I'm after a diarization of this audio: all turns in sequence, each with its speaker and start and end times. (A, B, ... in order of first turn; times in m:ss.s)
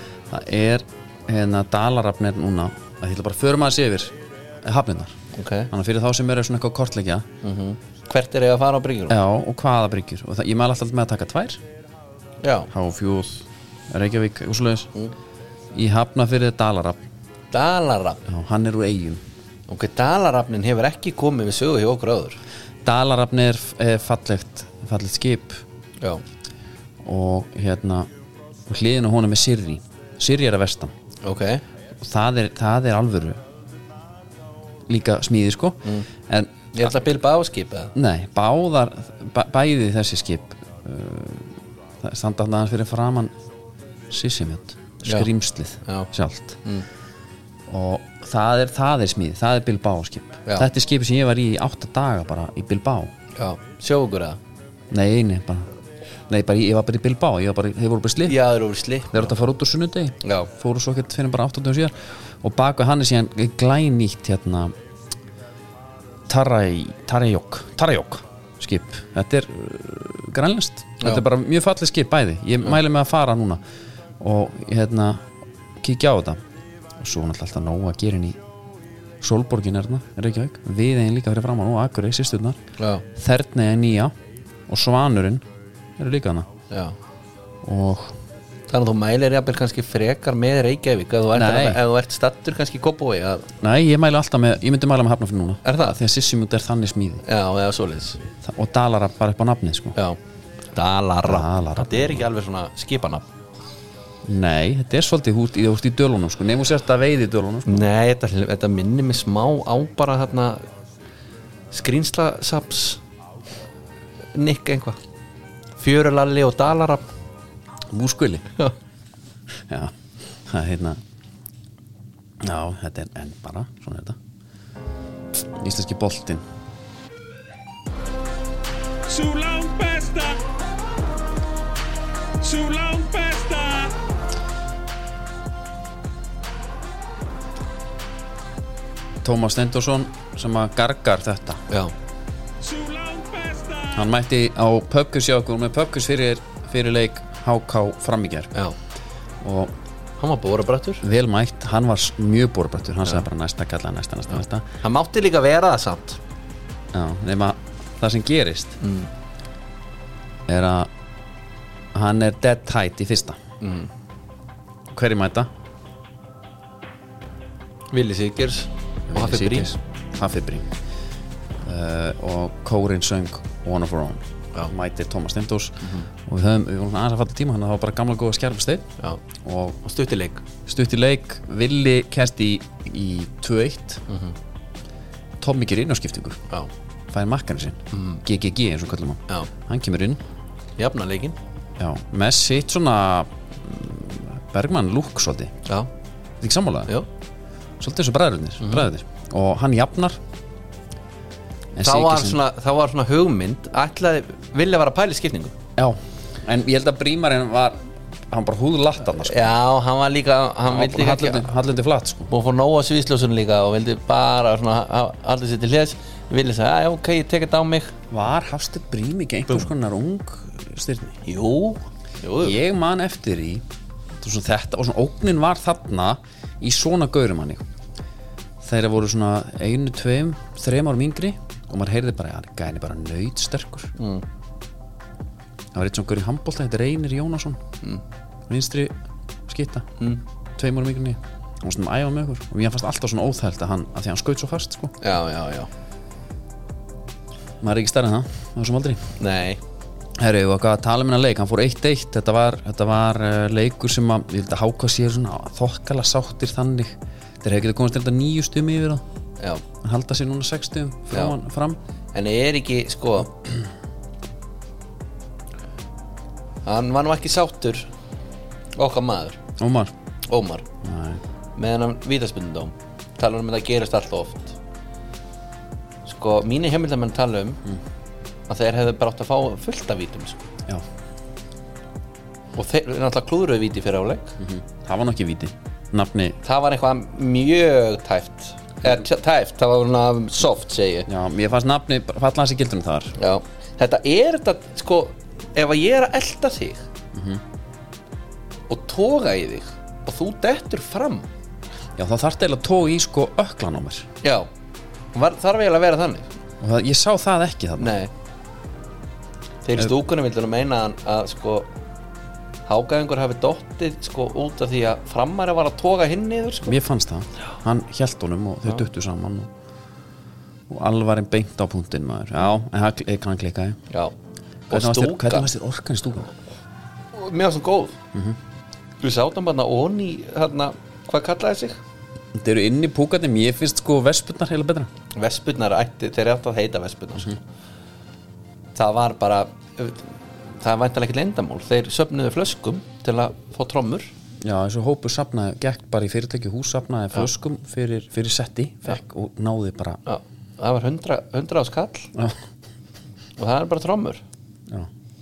0:00.3-0:05.1 A
0:05.3-0:05.7 B
0:05.7-0:07.3 A
0:07.4-0:09.2 B
0:09.1-0:11.6 A
0:12.4-0:12.7 B
0:12.7-0:14.9 A
0:15.7-0:17.0 A
0:17.5-0:18.2 B
0:18.3-0:19.2 A
0:19.7-0:22.4 B
0:22.8-0:25.6 A
0:27.0-0:28.1 A
0:28.7-0:30.9 A
0:31.2-0:31.6 B
0:32.0-0:33.4 A
0:34.9-0:36.5 A
0:36.7-0:37.9 B
0:37.9-0:43.3 A
0:44.1-0:46.6 A
0:45.0-0:45.3 B
0:47.7-0:53.1 A
0:53.4-0:54.4 B
0:54.9-0:55.7 A
0:56.3-0:58.4 A
0:58.2-0:59.3 B
0:59.1-1:04.7 A
1:00.2-1:00.5 B
1:06.3-1:13.6 A
1:14.2-1:15.2 A
1:15.8-1:16.4 A
1:17.0-1:18.4 A
1:19.2-1:22.6 A
1:22.8-1:23.0 B
1:23.1-1:24.1 A
1:24.7-1:25.4 A
1:26.0-1:26.5 A
1:27.6-1:28.1 A
1:28.7-1:33.5 B
1:31.3-1:31.8 A
1:33.6-1:37.2 A
1:35.6-1:36.0 B
1:37.2-1:38.2 B
1:38.4-1:40.0 A
1:40.7-1:43.3 B
1:41.2-1:42.3 A
1:44.2-1:47.9 A
1:47.7-1:50.6 B
1:51.7-1:53.0 B
1:54.3-1:55.0 B
1:55.8-1:57.0 B
1:57.9-1:58.5 A
1:59.7-1:59.9 A
2:00.4-2:01.0 A
2:02.4-2:04.2 A
2:05.5-2:06.4 A
2:09.0-2:10.4 C
2:12.4-2:13.9 C
2:19.2-2:21.6 A
2:22.6-2:24.0 C
2:23.9-2:28.5 A
2:29.4-2:29.7 A
2:30.2-2:31.0 B
2:31.0-2:34.6 A
2:34.8-2:36.2 B
2:36.9-2:38.8 A
2:38.8-2:39.1 B
2:40.5-2:40.9 A
2:41.9-2:43.4 A
2:43.6-2:43.9 B
2:44.9-2:45.5 A
2:47.9-2:49.7 B
2:49.1-2:50.7 A
2:51.6-2:58.9 A
2:59.4-2:59.8 A
2:59.8-3:00.4 B
3:00.6-3:04.0 A
3:04.1-3:04.3 B
3:05.4-3:06.4 A
3:07.1-3:10.2 A
3:07.9-3:08.2 B
3:10.8-3:11.4 B
3:11.8-3:15.5 A
3:16.4-3:16.9 A
3:17.8-3:20.2 A
3:18.6-3:18.9 B
3:21.7-3:22.4 A
3:21.8-3:25.5 B
3:25.8-3:29.5 A
3:29.2-3:31.5 B
3:30.7-3:32.3 A
3:32.3-3:37.9 B
3:38.1-3:41.2 A
3:41.2-3:42.6 B
3:42.4-3:43.6 A
3:44.2-3:47.6 A
3:48.6-3:53.9 A
3:54.0-3:54.2 B
3:55.7-3:57.6 A
3:58.5-3:58.9 A
3:59.5-3:59.9 A
4:00.6-4:04.9 A
4:05.0-4:05.7 B
4:07.6-4:09.1 A
4:09.2-4:09.6 B
4:10.2-4:19.0 A
4:19.8-4:21.8 A
4:22.1-4:23.3 B
4:26.6-4:27.9 B
4:28.8-4:29.4 B
4:29.6-4:29.9 A
4:30.3-4:30.7 B
4:30.8-4:31.2 A
4:31.6-4:34.6 B
4:36.0-4:37.6 B
4:38.5-4:40.5 B
4:42.6-4:44.4 B
4:44.4-4:46.4 A
4:46.4-4:51.1 B
4:51.1-4:53.1 A
4:53.2-4:56.8 B
4:57.1-4:57.4 A
4:58.7-5:01.3 B
5:02.0-5:04.1 A
5:04.2-5:04.5 B
5:05.1-5:06.3 B
5:06.6-5:08.0 A
5:07.8-5:08.1 B
5:09.6-5:11.7 B
5:12.7-5:16.8 B
5:16.6-5:19.5 A
5:20.7-5:23.8 A
5:24.7-5:25.5 B
5:24.7-5:26.3 A
5:27.1-5:28.0 B
5:29.0-5:31.8 B
5:32.3-5:34.9 A
5:35.2-5:37.4 B
5:38.7-5:44.1 B
5:44.4-5:50.0 A
5:50.0-5:52.1 B
5:53.4-5:54.2 B